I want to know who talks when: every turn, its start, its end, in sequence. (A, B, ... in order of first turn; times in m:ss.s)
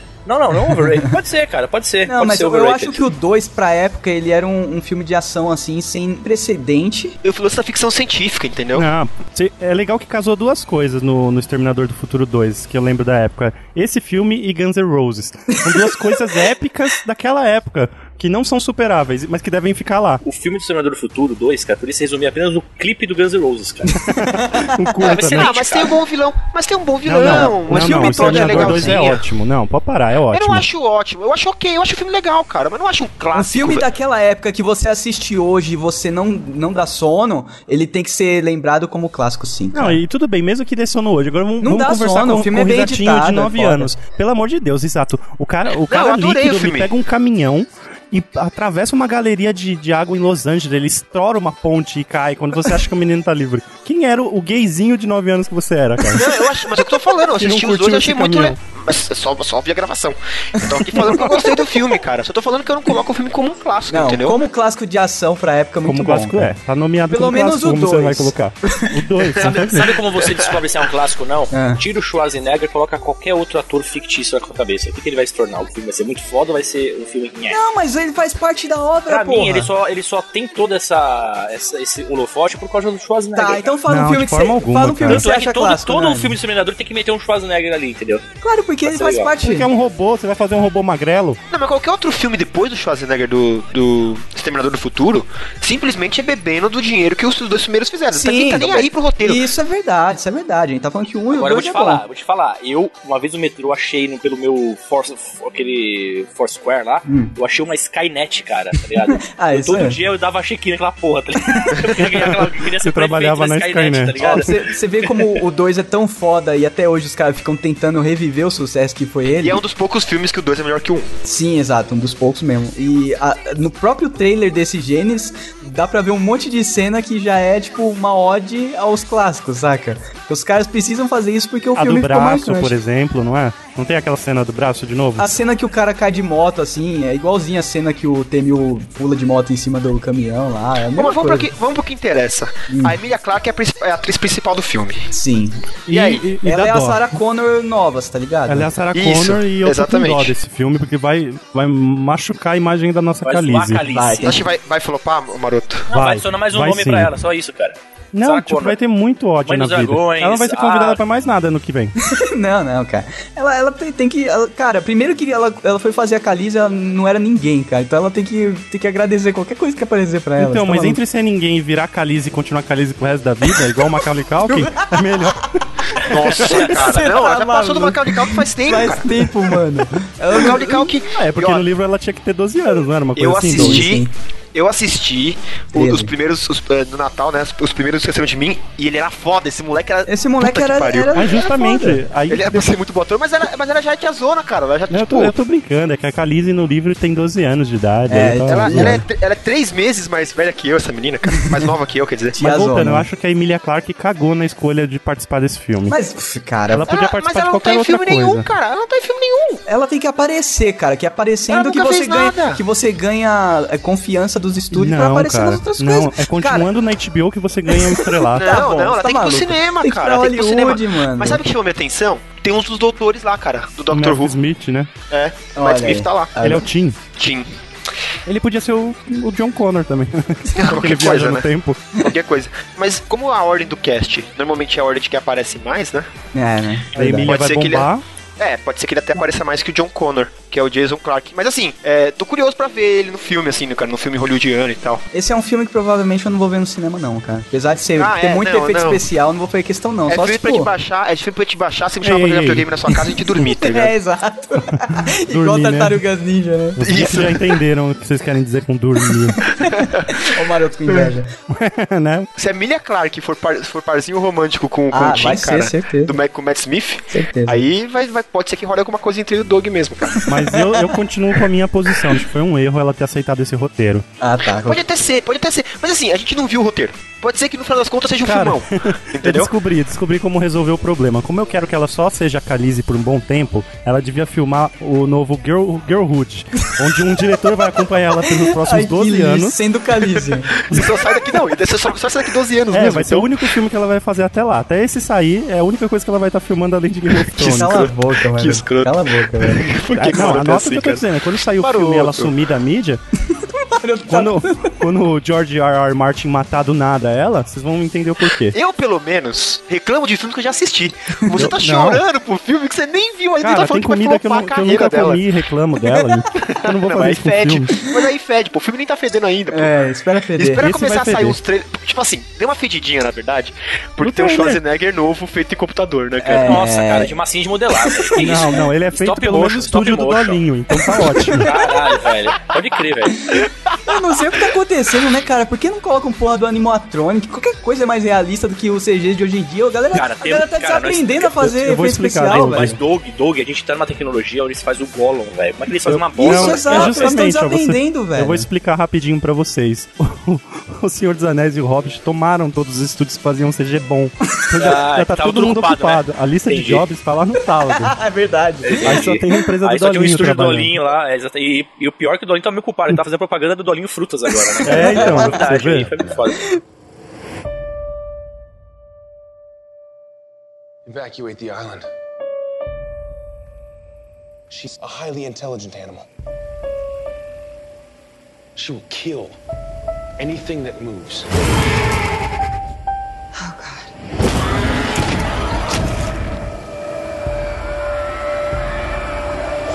0:00.2-0:03.0 A
0:00.8-0:01.1 B
0:02.0-0:07.2 B
0:07.2-0:08.9 C
0:08.7-0:20.2 D
0:15.7-0:16.0 B
0:20.2-0:24.0 A
0:24.0-0:25.5 D
0:25.0-0:25.9 A
0:25.2-0:29.2 C
0:27.0-0:30.6 D
0:27.2-0:29.1 B
0:30.3-0:33.8 C
0:33.3-0:40.0 B
0:39.7-0:56.3 D
0:41.6-0:44.0 B
0:45.8-0:46.9 C
0:56.1-1:04.4 C
0:57.3-0:58.6 D
1:00.6-1:01.4 B
1:03.9-1:06.5 B
1:05.8-1:10.0 D
1:07.1-1:08.9 B
1:09.4-1:17.6 A
1:11.5-1:11.8 B
1:17.5-1:19.7 B
1:19.1-1:23.7 A
1:23.3-1:26.3 B
1:23.9-1:25.2 D
1:25.1-1:28.2 A
1:28.4-1:29.7 B
1:28.8-1:29.3 A
1:29.4-1:31.4 D
1:31.5-1:39.5 C
1:38.1-1:42.0 B
1:41.3-1:55.3 A
1:47.1-1:47.3 B
1:49.2-1:50.0 B
1:51.4-1:51.8 B
1:52.7-1:54.5 D
1:54.2-1:59.6 B
1:59.4-2:01.1 C
2:01.2-2:12.7 B
2:11.8-2:15.3 D
2:15.2-2:21.5 B
2:20.9-2:25.1 C
2:22.7-2:23.0 B
2:25.1-2:25.6 B
2:25.9-2:27.0 D
2:25.9-2:26.3 C
2:26.4-2:28.7 B
2:28.5-2:33.8 D
2:28.9-2:30.3 C
2:33.2-2:34.4 A
2:33.9-2:34.4 B
2:34.2-2:35.9 C
2:35.9-2:38.8 A
2:35.9-2:37.1 D
2:38.1-2:41.9 D
2:39.4-2:41.0 A
2:42.0-2:51.0 B
2:50.4-2:55.5 D
2:54.4-2:55.0 B
2:55.9-2:59.3 C
2:56.0-3:00.9 B
2:56.4-2:56.9 A
3:00.3-3:01.6 C
3:01.1-3:03.9 D
3:03.2-3:11.5 C
3:03.5-3:04.1 B
3:05.7-3:06.1 B
3:10.1-3:12.0 B
3:11.1-3:12.6 D
3:12.3-3:15.4 C
3:14.9-3:19.0 D
3:18.1-3:19.0 B
3:18.4-3:22.4 C
3:22.3-3:23.0 B
3:22.4-3:25.9 D
3:25.9-3:26.8 B
3:26.7-3:28.5 D
3:26.8-3:29.6 C
3:29.7-3:36.7 B
3:31.5-3:32.6 C
3:34.7-3:38.5 D
3:38.2-3:41.4 B
3:38.3-3:44.3 C
3:43.9-3:44.9 D
3:45.1-3:46.4 C
3:45.5-3:46.6 B
3:46.4-3:47.0 D
3:47.2-3:47.5 C
3:48.2-3:51.8 D
3:50.5-3:51.5 C
3:52.0-3:56.1 C
3:56.3-3:57.3 B
3:57.0-3:58.0 D
3:57.0-4:05.0 C
4:05.1-4:10.7 B
4:08.0-4:09.0 C
4:10.1-4:13.9 C
4:12.0-4:12.9 D
4:13.6-4:16.9 B
4:14.9-4:16.0 D
4:16.8-4:19.4 D
4:16.8-4:17.6 C
4:19.6-4:20.2 C
4:19.6-4:21.3 B
4:21.5-4:22.3 D
4:22.4-4:30.2 C
4:24.9-4:26.2 B
4:27.1-4:27.6 B
4:30.2-4:30.9 B
4:30.3-4:34.0 D
4:34.2-4:34.8 B
4:34.6-4:39.5 C
4:38.2-4:49.5 D
4:48.4-4:50.6 B
4:50.7-4:53.5 C
4:52.7-4:57.9 D
4:57.1-5:02.3 C
4:57.4-4:59.7 B
4:59.9-5:03.0 D
5:03.4-5:04.8 B
5:04.1-5:08.6 D
5:08.5-5:15.2 C
5:11.3-5:12.0 D
5:13.4-5:17.7 D
5:16.3-5:19.7 C
5:19.5-5:20.6 B
5:20.4-5:26.6 C
5:20.6-5:21.4 D
5:24.0-5:24.6 D
5:26.2-5:27.1 B
5:26.4-5:30.4 A
5:28.2-5:31.5 D
5:31.4-5:33.4 A
5:33.8-5:42.8 B
5:39.9-5:41.3 A
5:41.4-5:42.8 D
5:42.3-5:47.1 A
5:45.8-5:57.9 D
5:46.2-5:48.5 B
5:54.6-5:56.8 A
5:57.8-5:59.0 B
5:58.6-6:06.4 A
5:58.8-6:00.7 D
6:04.6-6:05.4 B
6:04.6-6:05.9 D
6:10.8-6:11.8 E
6:14.5-6:16.0 E
6:18.6-6:19.4 E
6:20.2-6:21.3 E